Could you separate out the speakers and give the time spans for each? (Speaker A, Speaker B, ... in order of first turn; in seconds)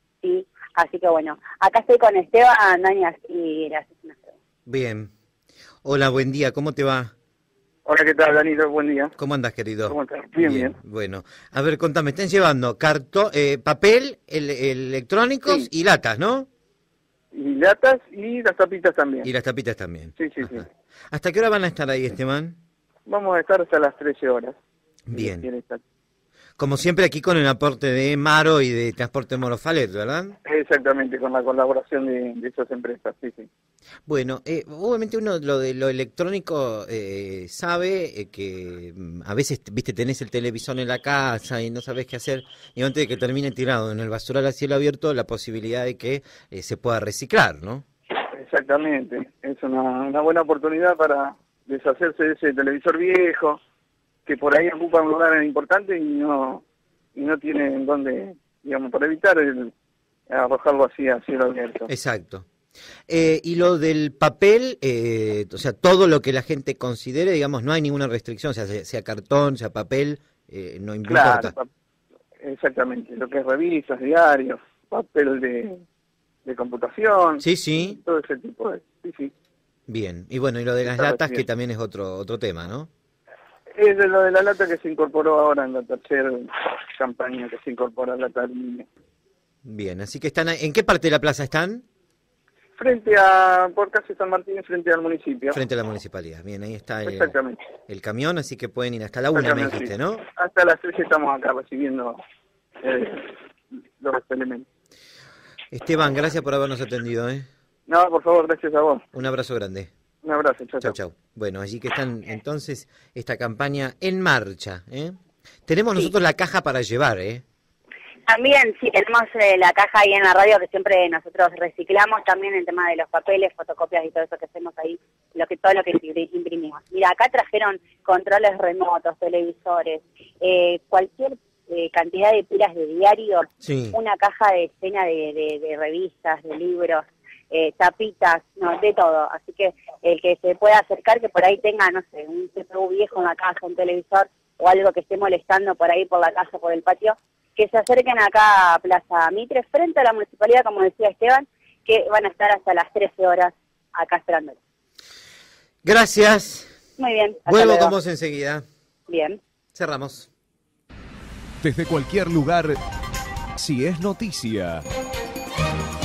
Speaker A: 0.2-4.3, 118.3-154.6, 157.0-157.9, 159.1-159.4
Speaker B: 4.7-5.1, 5.8-7.1, 9.2-16.5, 19.2-22.6, 25.1-25.4, 26.6-30.4, 34.1-47.8, 61.9-62.5, 63.1-71.5, 77.4-78.0, 79.9-82.9, 89.6-91.8, 95.5-97.3, 97.9-100.2, 105.7-107.5, 109.1-109.9, 110.8-115.2, 115.7-117.4, 133.6-134.0, 155.8-156.7, 157.5-158.6, 159.7-160.3
Speaker C: 7.8-9.1, 9.9-10.8, 17.3-19.3, 20.2-20.6, 23.1-24.6, 25.1-25.8, 30.4-33.5, 48.2-53.6, 54.2-56.6, 57.1-59.7, 60.3-61.9, 71.1-71.7, 72.4-75.8, 76.4-79.3, 80.8-81.4, 83.7-88.8, 92.8-95.6, 97.0-97.6, 99.3-102.2, 102.8-104.7, 107.9-109.0, 110.2-110.9
Speaker D: 161.6-162.8, 163.6-164.8